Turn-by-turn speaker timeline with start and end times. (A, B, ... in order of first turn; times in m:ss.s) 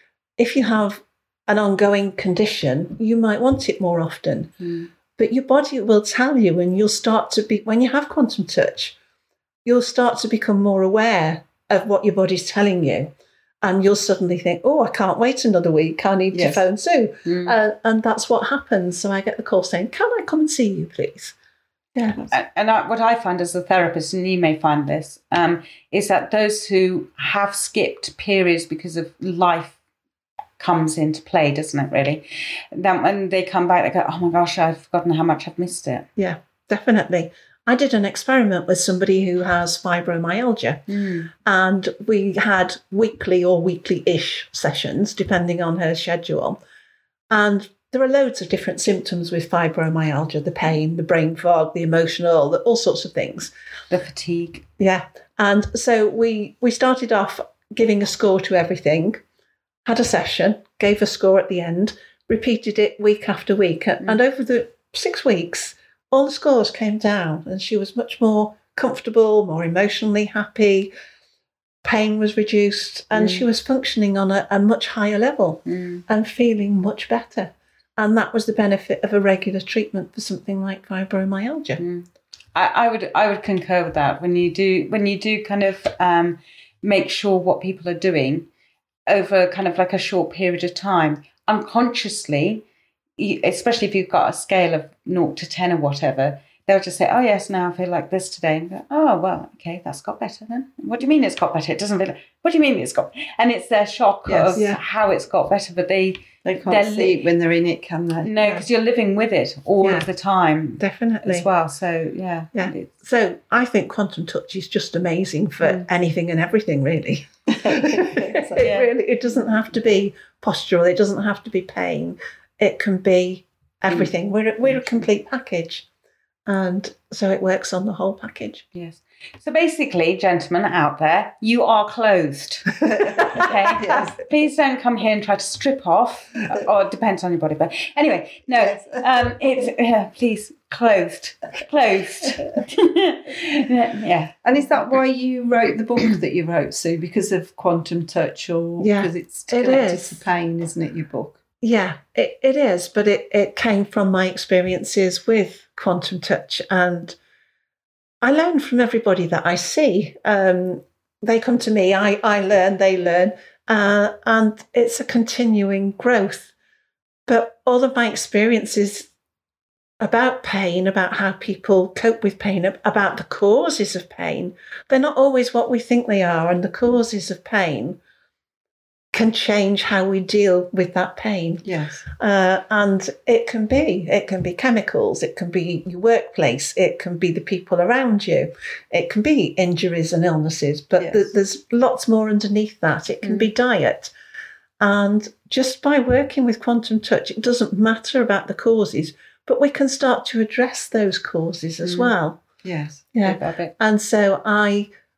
0:00.4-0:04.5 A
0:05.2-0:09.0 A
0:09.6-0:13.1 A
0:13.6-0:21.4 A
0:16.3-0:16.6 B
0:17.3-0:17.6 C
0:22.0-0:22.2 A
0:22.3-0:29.8 C
0:30.6-0:36.1 C
0:36.2-0:40.8 A
0:40.9-0:41.3 C
0:41.4-0:46.6 A
0:47.3-0:53.5 A
0:53.9-0:54.6 C
0:54.8-0:59.2 A
0:59.8-1:10.9 A
1:11.8-1:21.8 A
1:13.1-1:13.4 C
1:15.7-1:16.0 C
1:21.8-1:28.5 C
1:29.1-1:32.6 C
1:33.2-1:47.2 C
1:44.3-1:44.6 B
1:46.4-1:48.3 B
1:48.2-1:52.9 C
1:49.8-1:50.1 A
1:50.8-1:51.5 A
1:52.5-2:05.9 A
1:57.5-1:58.6 B
1:58.6-1:58.9 C
2:06.5-2:08.7 A
2:08.7-2:24.4 C
2:12.9-2:14.2 B
2:18.6-2:19.3 B
2:24.4-2:31.4 B
2:28.8-2:30.2 A
2:31.6-2:37.2 A
2:38.2-2:46.5 A
2:47.3-2:49.1 A
2:50.0-2:58.0 A
2:59.1-3:14.1 A
3:01.6-3:02.0 B
3:11.0-3:11.3 B
3:13.2-3:13.5 C
3:14.8-3:22.4 A
3:21.8-3:22.1 C
3:22.6-3:23.0 B
3:23.1-3:24.9 A
3:23.2-3:23.7 C